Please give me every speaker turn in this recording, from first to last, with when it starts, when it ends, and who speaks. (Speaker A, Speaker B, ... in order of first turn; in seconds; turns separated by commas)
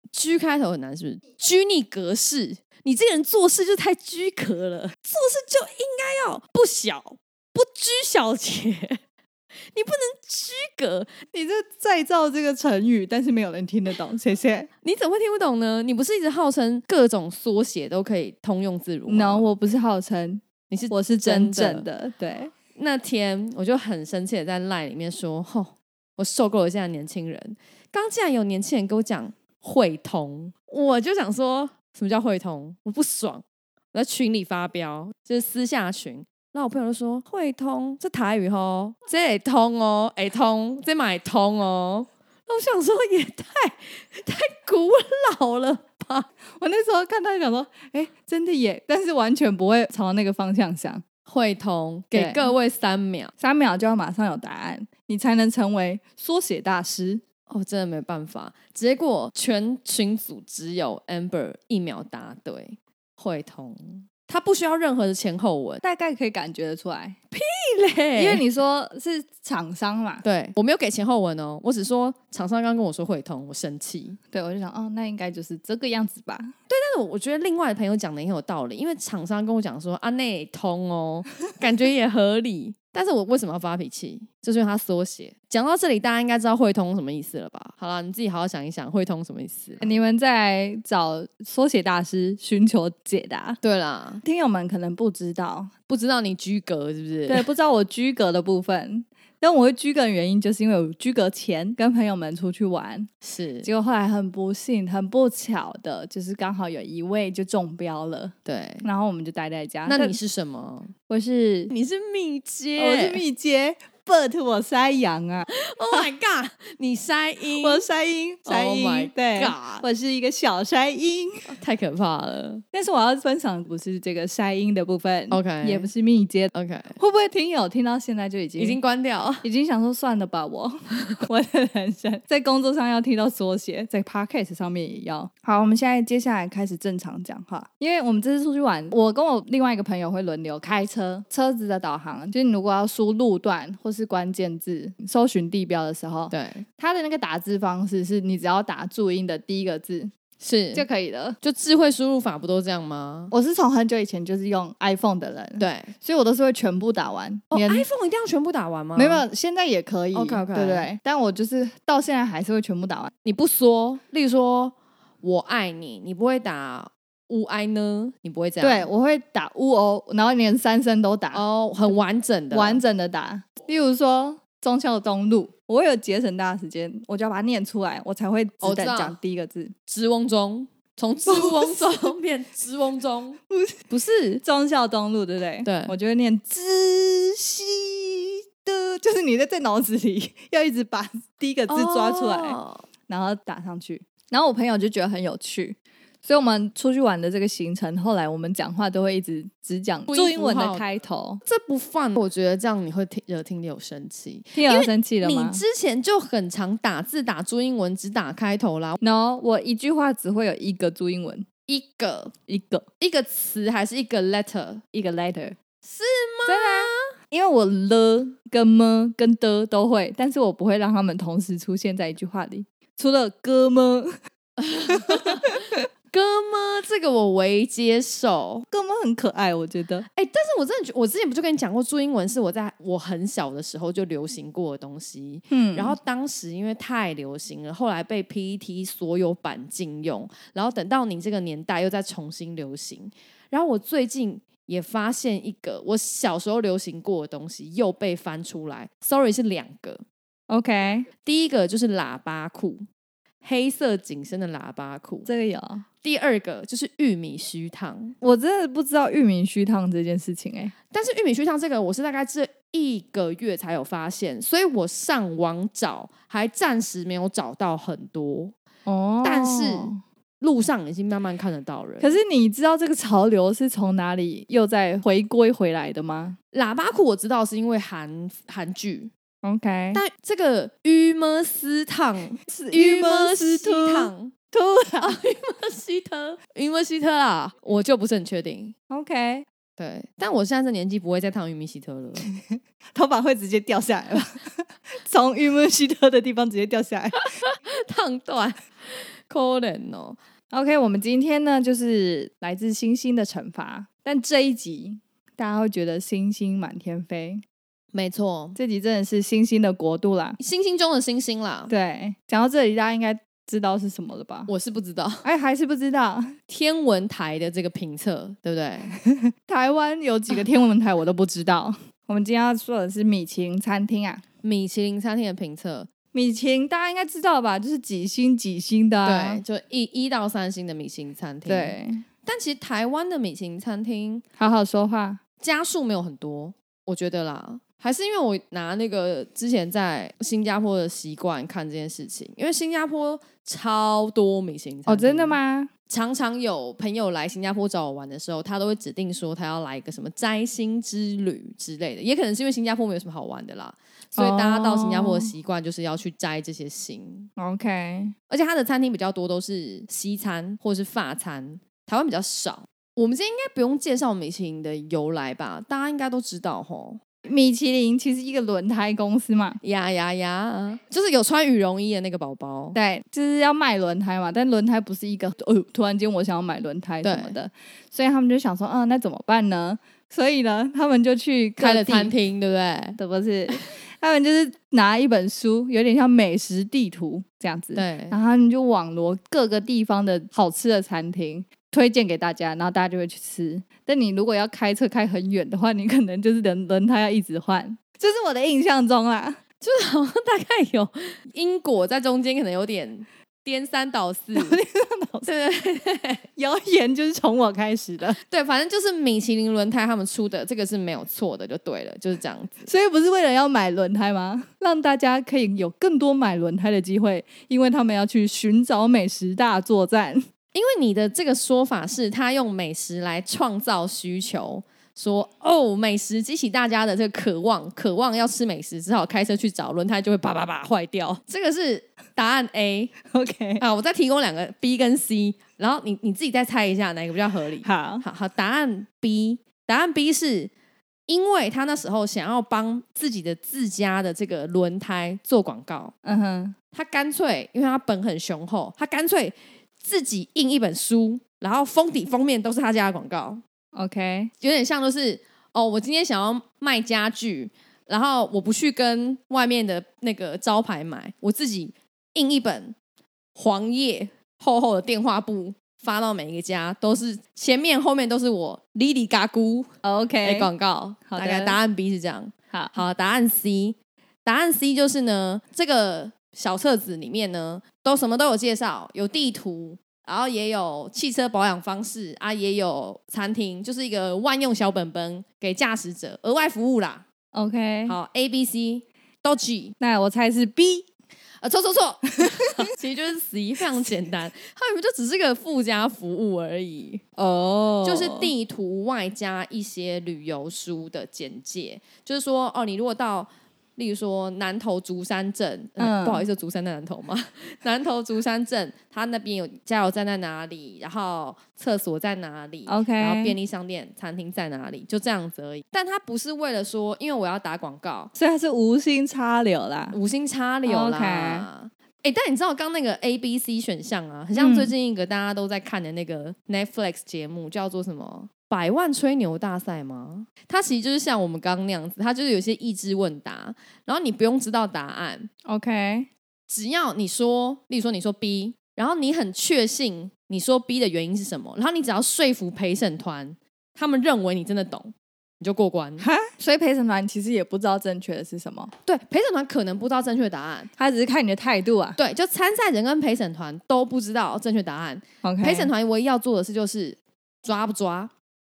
Speaker A: 0.1-9.0, Speaker A: 9.7-11.1, Speaker B: 11.3-14.7, Speaker A: 14.8-19.4, Speaker B: 19.1-22.5, Speaker A: 20.7-21.9, Speaker A: 22.7-46.3, Speaker B: 46.6-51.0, Speaker A: 51.2-53.3, Speaker B: 52.1-52.5, Speaker B: 53.4-57.2, Speaker A: 57.5-65.8, Speaker B: 65.8-67.2, Speaker A: 67.3-68.4, Speaker B: 68.2-70.2, Speaker A: 70.2-74.2, Speaker B: 74.3-76.5, Speaker A: 76.7-89.8, Speaker B: 89.8-93.6, Speaker A: 93.6-94.2, Speaker B: 94.2-95.7, Speaker A: 95.9-97.5, Speaker B: 97.3-103.1, Speaker A: 103.2-103.7, Speaker B: 103.6-110.2, Speaker A: 108.4-108.9, Speaker A: 109.9-110.9, Speaker B: 111.1-111.7, Speaker A: 111.7-113.2, Speaker B: 112.8-115.5, Speaker A: 115.5-117.8, Speaker B: 117.5-121.5, Speaker A: 118.5-119.8, Speaker A: 121.5-122.6, Speaker B: 122.7-128.8, Speaker A: 125.3-125.9, Speaker A: 126.5-127.0, Speaker A: 128.6-129.4, Speaker B: 129.4-150.1, Speaker A: 146.3-146.6, Speaker A: 150.4-150.8, Speaker B: 150.7-151.4, Speaker A: 151.4-153.3, Speaker B: 153.3-157.8, Speaker A: 155.6-155.9, Speaker A: 157.5-159.2, Speaker B: 158.9-163.1, Speaker A: 160.1-160.9, Speaker A: 163.2-168.9, Speaker B: 168.6-171.4, Speaker A: 171.3-172.8, Speaker B: 172.5-179.7, Speaker A: 178.6-179.2, Speaker A: 179.9-184.4, Speaker B: 181.3-181.9, Speaker B: 183.5-183.8, Speaker B: 184.4-201.4, Speaker A: 185.6-185.9, Speaker A: 191.7-192.8, Speaker A: 200.1-200.8, Speaker A: 201.4-209.0, Speaker B: 204.5-205.6, Speaker B: 209.0-211.4, Speaker A: 211.7-212.3, Speaker B: 212.5-212.8, Speaker A: 213.0-214.8, Speaker B: 214.9-215.6, Speaker A: 215.8-217.1, Speaker B: 216.5-224.2, Speaker A: 224.6-228.7, Speaker B: 224.9-225.8, Speaker B: 228.7-230.1, Speaker A: 230.1-250.0, Speaker B: 235.5-235.9, Speaker B: 250.5-251.1, Speaker A: 251.2-252.8, Speaker A: 253.4-255.3, Speaker B: 255.2-255.8, Speaker A: 256.0-258.1, Speaker B: 258.2-260.7, Speaker A: 260.9-268.5, Speaker B: 268.9-270.0, Speaker A: 269.2-272.2, Speaker B: 272.0-276.4, Speaker A: 276.5-279.1, Speaker B: 279.4-280.0, Speaker A: 279.9-284.3, Speaker B: 282.4-285.2, Speaker A: 285.0-288.7, Speaker B: 288.9-289.4, Speaker A: 289.8-292.3, Speaker B: 292.3-297.2, Speaker A: 297.1-300.2, Speaker B: 300.5-307.4, Speaker A: 307.9-308.6, Speaker B: 308.6-310.4, Speaker A: 310.4-311.7, Speaker B: 311.7-314.5, Speaker A: 314.5-315.2, Speaker B: 315.2-316.4, Speaker A: 316.5-319.0, Speaker B: 319.0-324.2, Speaker A: 324.4-325.9, Speaker B: 326.1-329.4, Speaker A: 329.0-334.2, Speaker B: 331.4-332.0, Speaker B: 334.4-335.2, Speaker A: 335.4-357.3, Speaker B: 344.9-345.7, Speaker B: 354.1-355.3, Speaker B: 357.4-358.1, Speaker A: 358.3-367.0, Speaker B: 367.2-369.6, Speaker A: 369.6-372.8, Speaker B: 372.7-382.1, Speaker A: 377.0-377.4, Speaker A: 381.6-383.0, Speaker B: 383.0-399.4, Speaker A: 387.7-388.2, Speaker A: 399.6-404.6, Speaker B: 404.3-405.3, Speaker A: 405.2-406.2, Speaker B: 406.4-408.2, Speaker A: 408.3-412.7, Speaker B: 412.7-420.2, Speaker A: 420.5-432.9, Speaker B: 433.1-433.6, Speaker A: 433.6-440.5, Speaker B: 437.6-438.0, Speaker A: 441.1-445.9, Speaker B: 446.0-446.6, Speaker A: 446.7-453.4, Speaker B: 453.7-454.3, Speaker A: 454.4-462.7, Speaker A: 463.3-469.7, Speaker B: 469.8-470.5, Speaker A: 470.2-487.1, Speaker B: 471.1-471.6, Speaker B: 487.3-487.9, Speaker A: 487.9-489.7, Speaker B: 489.8-490.9, Speaker A: 491.4-497.0, Speaker B: 497.2-498.3, Speaker A: 497.8-518.1, Speaker B: 505.8-506.2, Speaker B: 512.7-513.4, Speaker B: 518.1-520.0, Speaker A: 519.9-535.3, Speaker B: 520.6-521.5, Speaker B: 524.3-524.7, Speaker B: 535.4-536.1, Speaker A: 536.5-546.1, Speaker B: 546.0-548.7, Speaker A: 548.9-550.7, Speaker B: 550.8-552.0, Speaker A: 552.0-558.1, Speaker B: 555.2-555.7